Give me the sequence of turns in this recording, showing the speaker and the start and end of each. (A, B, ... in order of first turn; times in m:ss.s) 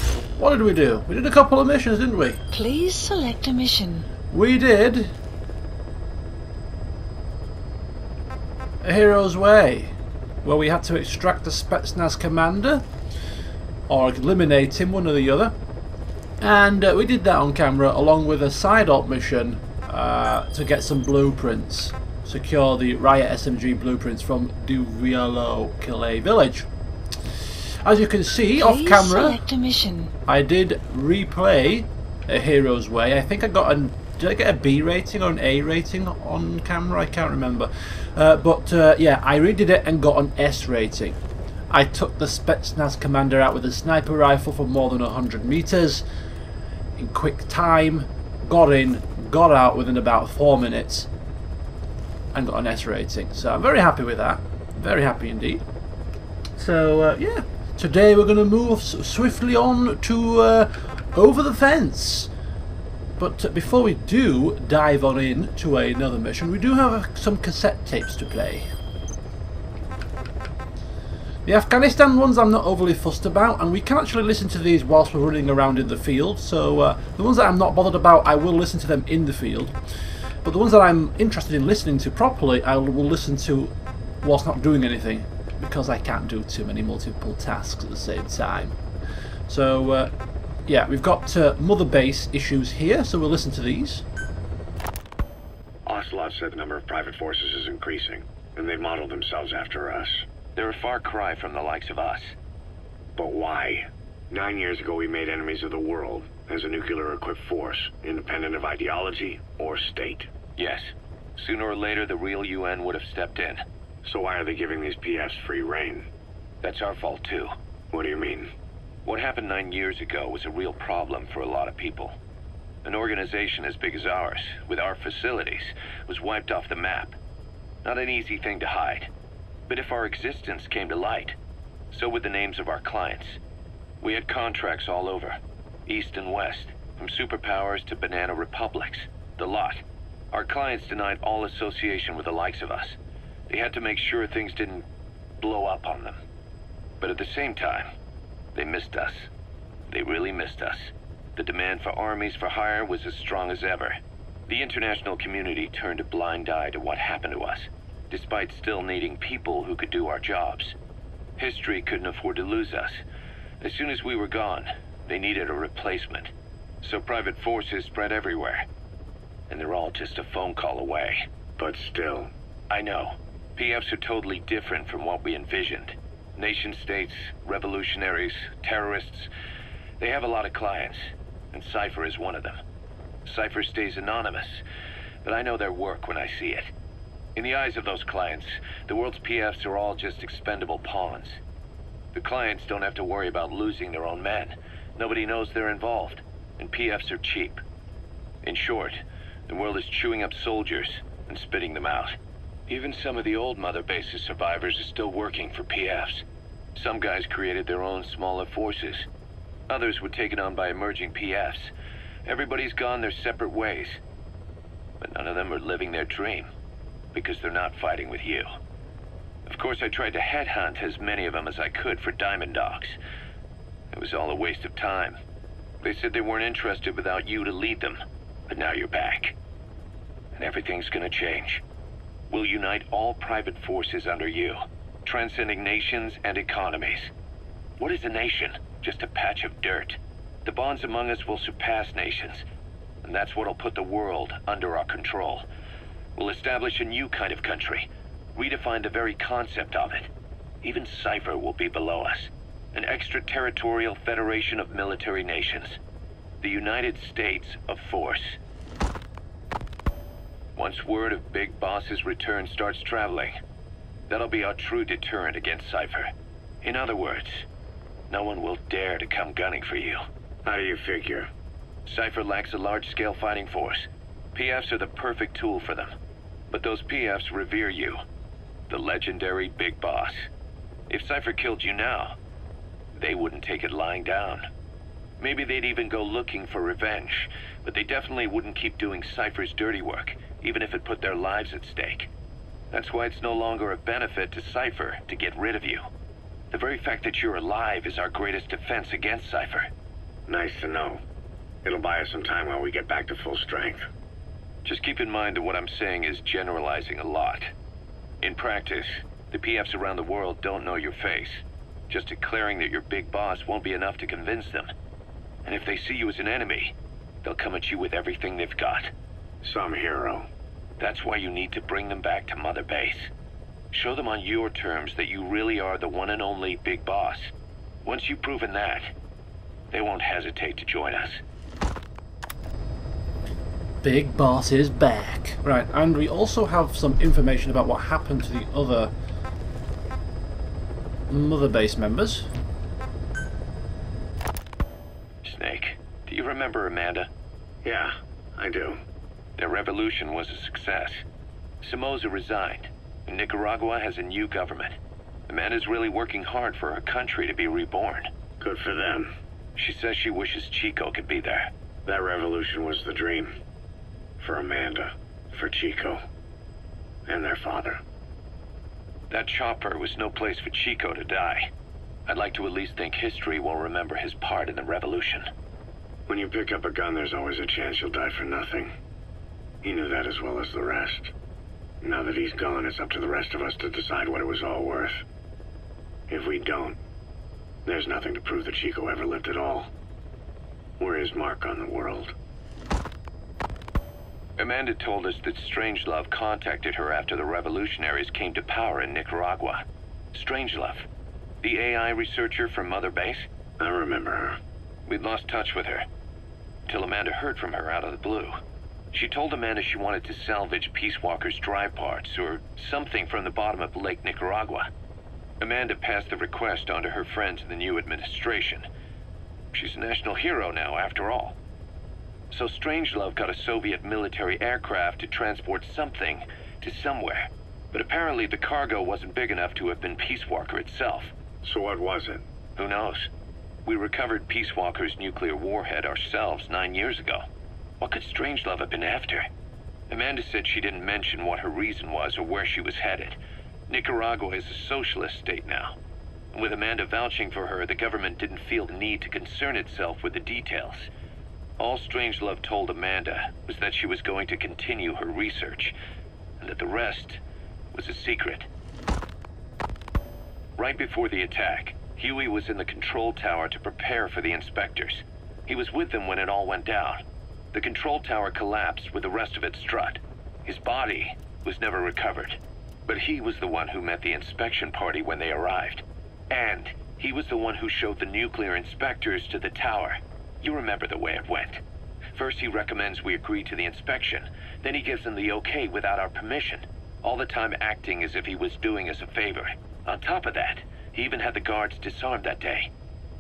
0:00.4-0:02.4 A
0:02.5-0:04.1 B
0:04.3-0:05.1 A
0:08.8-0:12.9 A
0:13.9-0:15.6 A
0:16.4-0:26.7 A
0:27.8-0:29.4 A
0:28.6-0:30.1 B
0:30.3-0:41.2 A
0:41.7-0:46.0 A
0:47.0-0:51.1 A
0:52.3-0:55.6 A
0:56.6-1:02.3 A
1:03.2-1:08.7 A
1:11.4-1:19.8 A
1:20.4-1:28.8 A
1:29.5-1:30.1 A
1:30.7-1:34.0 A
1:35.9-1:40.2 C
1:40.6-1:42.4 D
1:43.2-1:50.3 C
1:50.6-1:53.6 D
1:54.0-1:56.1 C
1:56.6-1:57.5 D
1:57.9-1:58.5 C
1:59.0-2:02.2 D
2:02.8-2:07.2 D
2:07.8-2:09.1 D
2:09.7-2:11.4 D
2:11.9-2:13.4 D
2:14.0-2:23.0 D
2:23.5-2:24.9 D
2:25.4-2:26.2 D
2:27.0-2:27.9 D
2:28.6-2:29.3 D
2:29.9-2:40.8 D
2:41.4-2:43.0 D
2:43.6-2:48.6 D
2:49.5-2:51.3 D
2:51.6-2:52.3 C
2:52.7-2:59.3 D
3:00.0-3:02.6 D
3:03.2-3:04.6 D
3:05.2-3:06.7 D
3:07.4-3:11.4 D
3:12.1-3:17.6 D
3:18.4-3:22.2 D
3:22.7-3:29.1 D
3:29.7-3:31.7 D
3:32.3-3:34.0 D
3:35.0-3:36.5 D
3:37.1-3:38.5 D
3:39.5-3:43.0 D
3:43.9-3:45.2 D
3:45.8-3:49.4 D
3:50.4-3:51.6 D
3:52.3-3:57.1 D
3:57.8-4:02.4 D
4:03.0-4:05.4 D
4:06.2-4:10.1 D
4:10.6-4:15.8 D
4:16.4-4:18.4 D
4:20.6-4:23.4 D
4:24.1-4:26.1 D
4:26.6-4:27.5 D
4:28.1-4:30.0 D
4:30.4-4:31.3 C
4:31.9-4:36.0 D
4:36.5-4:38.0 D
4:38.7-4:40.3 D
4:40.9-4:42.2 D
4:43.0-4:44.5 D
4:45.2-4:52.1 D
4:52.7-4:55.8 D
4:56.5-4:59.7 D
5:00.3-5:01.0 C
5:01.6-5:03.9 C
5:04.6-5:07.5 D
5:08.2-5:14.7 D
5:15.4-5:18.9 D
5:19.4-5:20.3 C
5:20.8-5:23.1 D
5:23.7-5:27.3 D
5:27.8-5:28.9 D
5:29.7-5:31.2 D
5:33.8-5:38.9 A
5:41.1-5:42.3 A
5:45.2-5:47.1 D
5:47.6-5:48.8 C
5:49.4-5:51.0 D
5:51.6-5:58.1 D
5:58.4-5:59.1 C
5:59.6-6:01.5 D
6:01.9-6:03.3 C
6:04.2-6:06.0 C
6:07.1-6:07.8 C
6:09.1-6:11.5 D
6:12.1-6:15.3 D
6:16.1-6:18.7 C
6:19.6-6:21.1 C
6:21.8-6:25.0 C
6:26.1-6:26.8 C
6:27.7-6:29.7 C
6:30.8-6:32.2 C
6:34.4-6:40.9 D
6:41.4-6:43.3 D
6:43.6-6:44.4 C
6:44.9-6:45.9 D
6:46.7-6:48.4 D
6:48.9-6:54.7 D
6:55.4-6:58.7 D
6:59.5-7:01.4 D
7:02.3-7:11.1 D
7:11.4-7:12.2 C
7:12.6-7:13.1 D
7:13.7-7:17.3 D
7:17.8-7:19.3 D
7:19.9-7:25.8 D
7:26.3-7:30.9 D
7:31.6-7:35.8 D
7:36.4-7:37.2 D
7:37.7-7:38.5 D
7:40.6-7:47.0 D
7:47.5-8:01.6 D
8:02.2-8:12.7 D